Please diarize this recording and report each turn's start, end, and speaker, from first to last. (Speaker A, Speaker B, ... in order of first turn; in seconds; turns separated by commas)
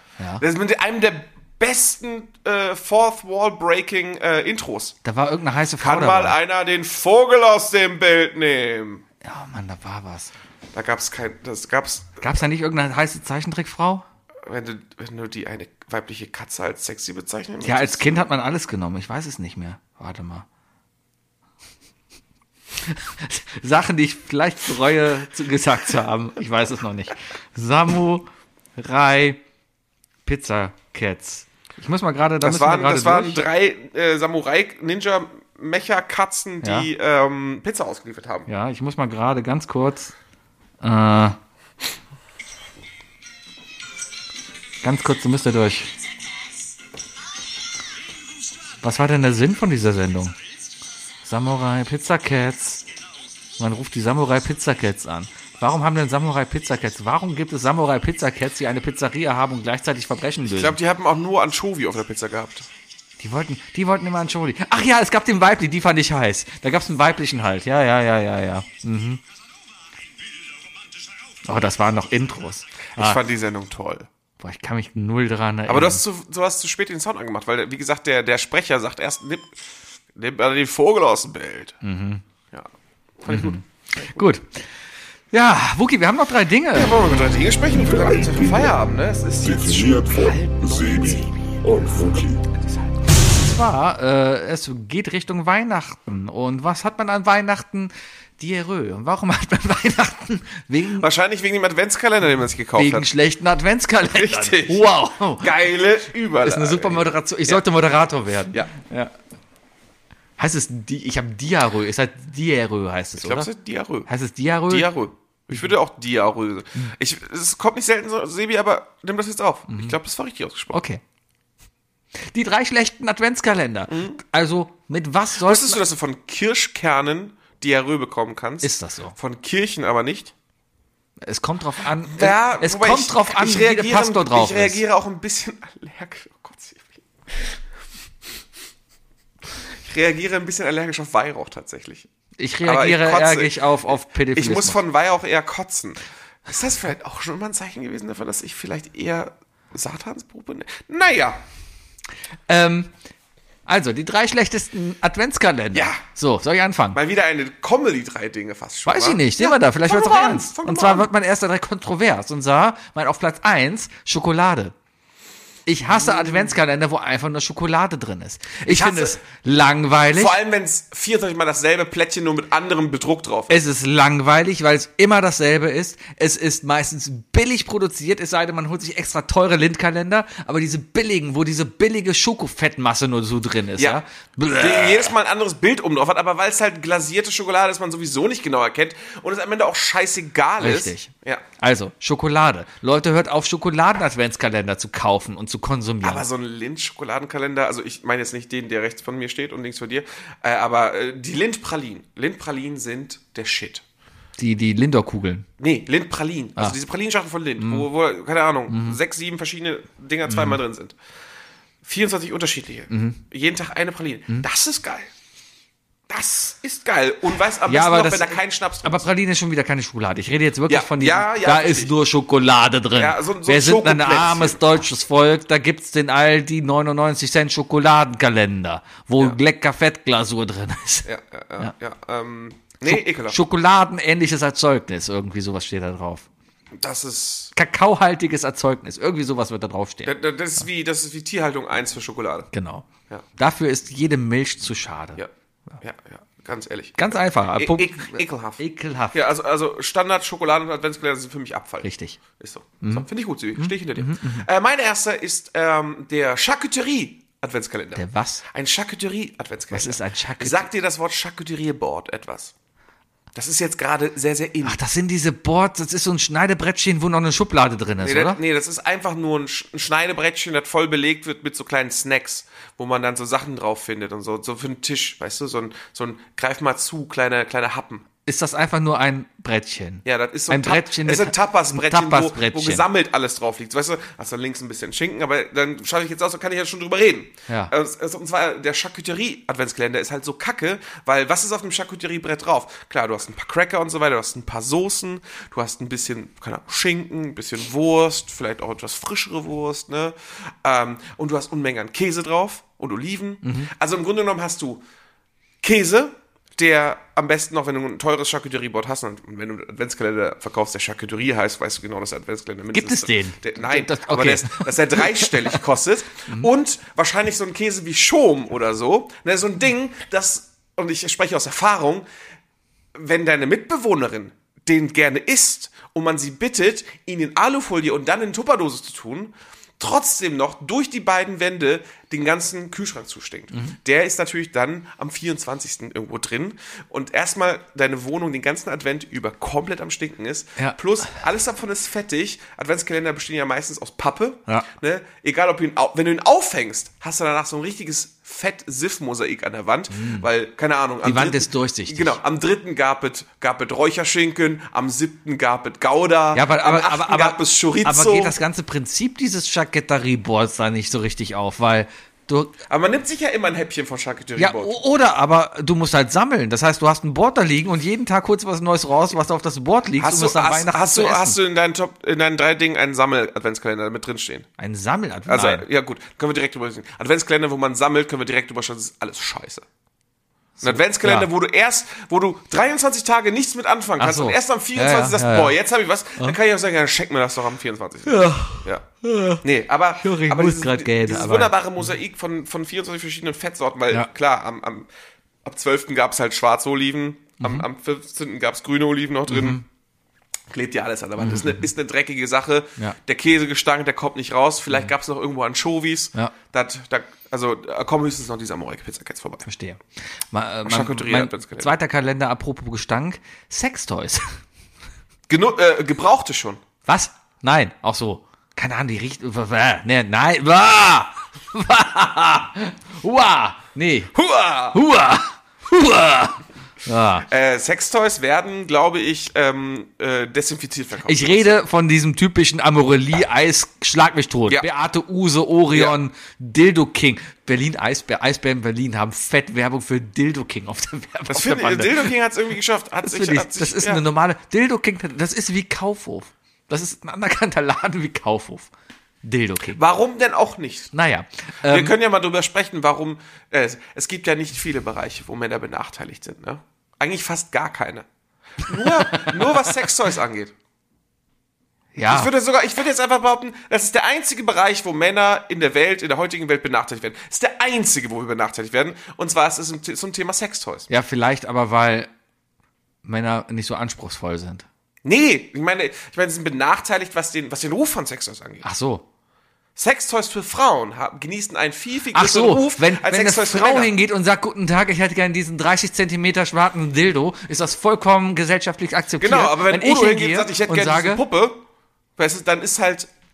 Speaker A: 0.4-5.0, Speaker B: 5.0-6.3, Speaker A: 5.8-9.0, Speaker B: 9.2-10.3, Speaker A: 10.7-12.2, Speaker B: 12.2-14.0, Speaker A: 14.4-18.2, Speaker B: 17.6-20.4, Speaker B: 22.9-29.4, Speaker B: 30.2-33.5, Speaker A: 32.4-38.5, Speaker B: 36.6-36.9, Speaker B: 38.5-40.1, Speaker B: 40.8-41.4, Speaker B: 44.8-45.9, Speaker B: 48.8-50.3, Speaker B: 51.2-52.9, Speaker B: 53.6-60.8, Speaker A: 60.6-62.6, Speaker B: 63.2-69.2, Speaker B: 71.4-73.2, Speaker A: 72.9-74.1, Speaker B: 74.4-76.0, Speaker A: 75.7-79.6, Speaker A: 80.1-81.8, Speaker B: 81.8-82.2, Speaker A: 83.2-84.3, Speaker B: 83.3-84.6, Speaker B: 85.3-86.9, Speaker A: 86.7-91.7, Speaker C: 89.6-92.4, Speaker B: 93.3-101.1, Speaker A: 101.0-103.1, Speaker B: 102.8-105.5, Speaker A: 104.1-104.9, Speaker A: 105.4-107.6, Speaker B: 106.4-109.1, Speaker B: 110.4-113.5, Speaker A: 113.2-114.1, Speaker B: 114.1-114.9, Speaker A: 114.7-120.8, Speaker B: 119.7-119.9, Speaker B: 120.7-121.0, Speaker B: 122.3-125.8, Speaker A: 123.9-124.2, Speaker A: 125.4-130.3, Speaker B: 128.6-129.2, Speaker B: 131.2-134.8, Speaker A: 132.1-137.6, Speaker A: 139.8-142.1, Speaker B: 142.4-144.8, Speaker A: 142.6-151.4, Speaker B: 152.5-152.9, Speaker B: 153.7-157.0, Speaker A: 155.7-156.0, Speaker A: 156.9-161.1, Speaker B: 158.8-164.7, Speaker B: 165.7-170.3, Speaker A: 165.9-166.5, Speaker A: 168.6-169.2, Speaker A: 170.2-173.6, Speaker B: 173.5-185.1, Speaker A: 184.5-191.4, Speaker B: 190.6-196.2, Speaker A: 196.0-203.8, Speaker B: 204.4-205.4, Speaker A: 205.6-210.9, Speaker B: 207.6-207.9, Speaker B: 208.7-209.0, Speaker B: 210.3-210.6, Speaker A: 211.8-215.1, Speaker B: 212.9-213.2, Speaker A: 216.1-219.1, Speaker B: 217.7-231.1, Speaker A: 220.7-221.9, Speaker A: 222.9-224.6, Speaker A: 231.0-233.4, Speaker B: 232.8-236.3, Speaker A: 236.8-237.5, Speaker B: 237.6-240.1, Speaker A: 240.0-242.5, Speaker B: 242.5-245.2, Speaker A: 245.8-248.6, Speaker B: 247.0-249.2, Speaker A: 249.1-262.5, Speaker B: 251.8-252.2, Speaker B: 252.8-254.4, Speaker B: 257.9-258.4, Speaker B: 259.7-260.7, Speaker A: 263.3-264.8, Speaker B: 264.6-268.4, Speaker A: 268.0-278.0, Speaker B: 278.2-282.8, Speaker A: 280.1-304.8, Speaker B: 303.4-303.7, Speaker A: 305.6-322.1, Speaker B: 312.7-315.6, Speaker A: 322.9-358.4, Speaker B: 349.9-350.3, Speaker B: 351.0-352.2, Speaker B: 356.3-362.5, Speaker A: 362.7-364.8, Speaker B: 364.4-371.4, Speaker A: 370.0-374.5, Speaker B: 374.6-375.6, Speaker A: 375.3-379.6, Speaker B: 380.6-381.3, Speaker A: 380.6-388.9, Speaker B: 384.0-385.5, Speaker B: 388.1-389.4, Speaker A: 389.4-394.9, Speaker B: 390.0-391.5, Speaker A: 395.4-399.6, Speaker B: 399.3-399.6, Speaker A: 400.5-409.4, Speaker B: 401.2-401.6, Speaker B: 409.4-414.4, Speaker A: 410.6-411.7, Speaker A: 415.3-416.6, Speaker B: 416.9-424.1, Speaker A: 424.1-424.8, Speaker B: 424.7-427.2, Speaker A: 427.2-431.6, Speaker B: 431.1-442.1, Speaker A: 441.3-444.0, Speaker B: 443.0-448.7, Speaker B: 449.2-449.8, Speaker A: 449.7-450.9, Speaker B: 450.9-451.9, Speaker A: 451.6-458.1, Speaker A: 458.6-460.5, Speaker B: 458.8-459.5, Speaker B: 461.9-462.3, Speaker A: 462.1-470.9, Speaker B: 470.9-472.1, Speaker B: 473.0-474.6, Speaker A: 475.0-478.6, Speaker B: 478.6-479.0, Speaker A: 479.8-483.9, Speaker B: 482.1-491.2, Speaker A: 489.2-491.6, Speaker A: 492.2-493.1